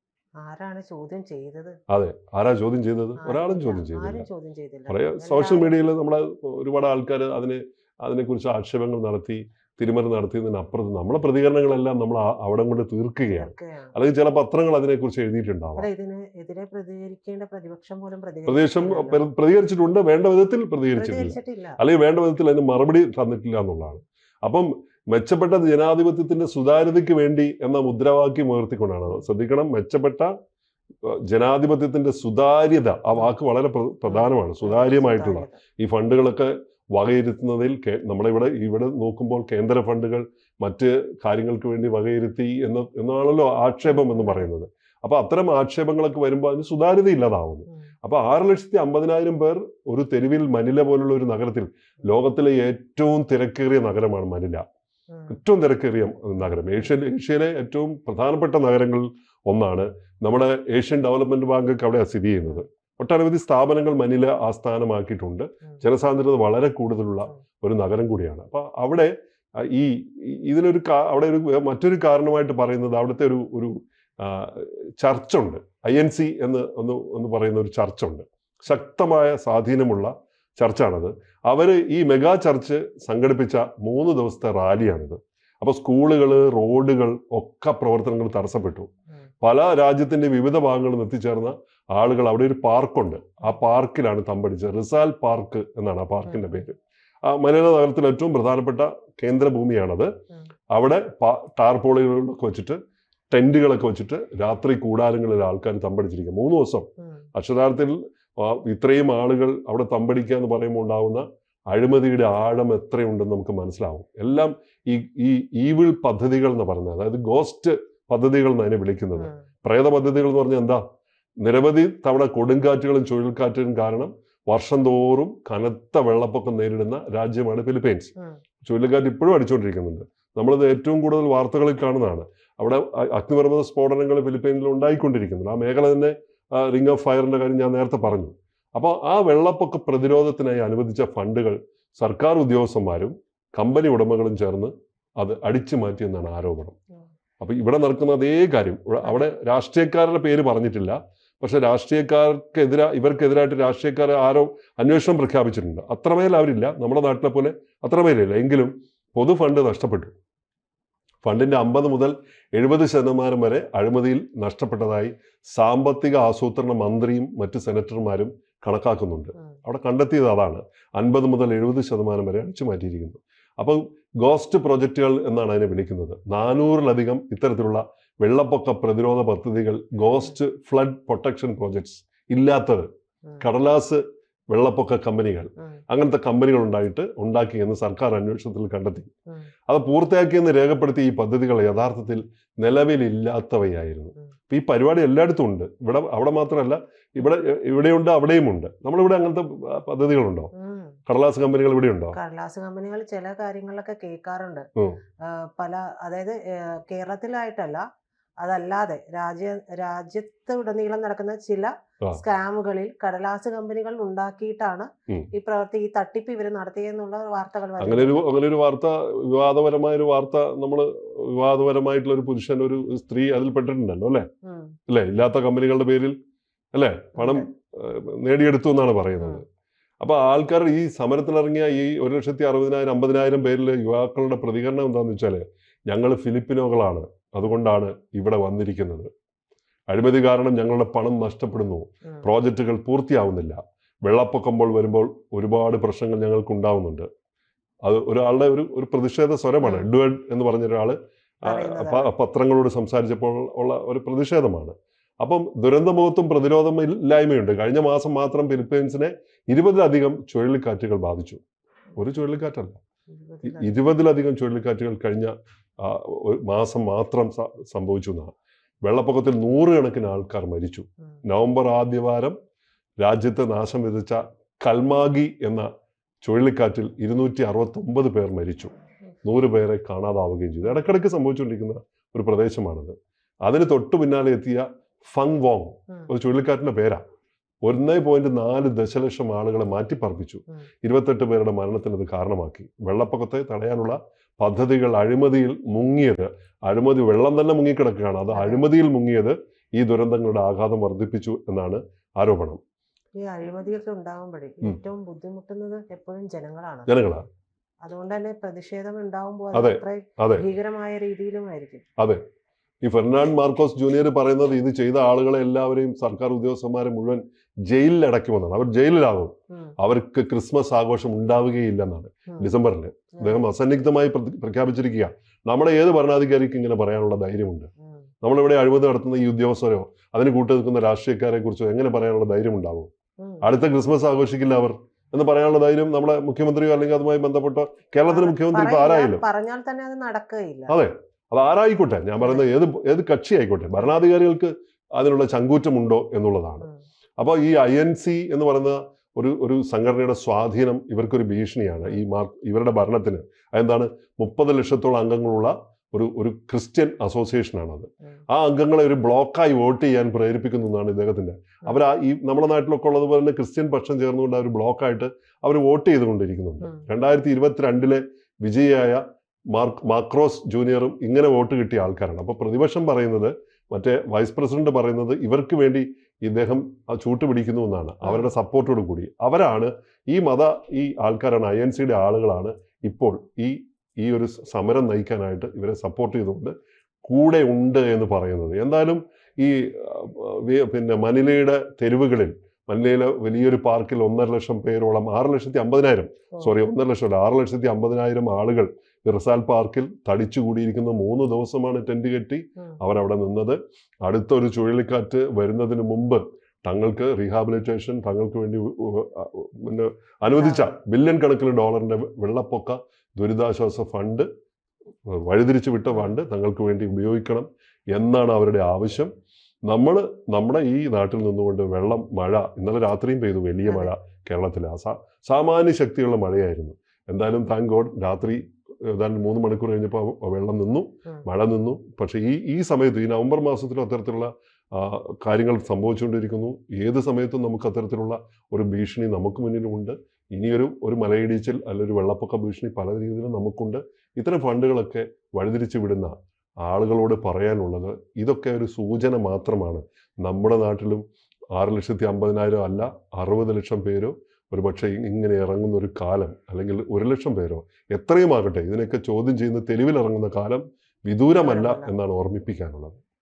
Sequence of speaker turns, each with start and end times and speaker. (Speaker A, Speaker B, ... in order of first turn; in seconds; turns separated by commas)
Speaker A: 0.4-1.8, Speaker B: 1.9-4.3, Speaker A: 3.2-5.7, Speaker B: 4.9-15.9, Speaker A: 13.3-13.9, Speaker A: 15.8-19.2, Speaker B: 18.5-30.3, Speaker A: 20.9-21.8, Speaker B: 31.0-54.6, Speaker A: 34.1-35.6, Speaker A: 43.9-44.5, Speaker B: 55.3-88.9, Speaker B: 89.4-100.1, Speaker A: 96.3-96.6, Speaker B: 100.7-102.8, Speaker B: 103.3-120.8, Speaker B: 121.4-128.1, Speaker B: 128.6-146.8, Speaker B: 147.4-160.1, Speaker B: 161.2-182.9, Speaker B: 183.4-189.1, Speaker B: 189.7-200.5, Speaker A: 200.6-201.0, Speaker B: 201.1-202.2, Speaker A: 202.1-204.7, Speaker A: 205.2-207.8, Speaker A: 208.4-218.3, Speaker B: 217.8-224.3, Speaker A: 224.4-224.8, Speaker B: 224.9-226.2, Speaker B: 226.7-229.4, Speaker A: 227.2-227.5, Speaker B: 230.0-239.1, Speaker B: 239.9-247.1, Speaker B: 247.8-261.4, Speaker A: 249.6-249.9, Speaker A: 251.4-252.1, Speaker B: 262.0-262.8, Speaker A: 263.1-263.8, Speaker B: 263.4-272.4, Speaker B: 273.0-275.7, Speaker B: 276.2-278.7, Speaker B: 279.2-287.0, Speaker B: 287.6-302.6, Speaker A: 298.3-298.7, Speaker A: 303.2-306.9, Speaker B: 306.9-307.2, Speaker A: 307.9-311.9, Speaker B: 309.5-310.4, Speaker B: 312.8-327.7, Speaker B: 328.2-332.9, Speaker B: 333.4-339.2, Speaker A: 338.1-340.7, Speaker B: 340.7-346.7, Speaker A: 342.2-342.5, Speaker B: 347.2-369.0, Speaker B: 369.5-386.5, Speaker A: 378.0-378.3, Speaker B: 387.1-414.3, Speaker A: 410.3-410.7, Speaker B: 415.1-419.1, Speaker A: 415.9-416.2, Speaker B: 419.7-463.0, Speaker A: 423.6-423.9, Speaker A: 461.3-461.9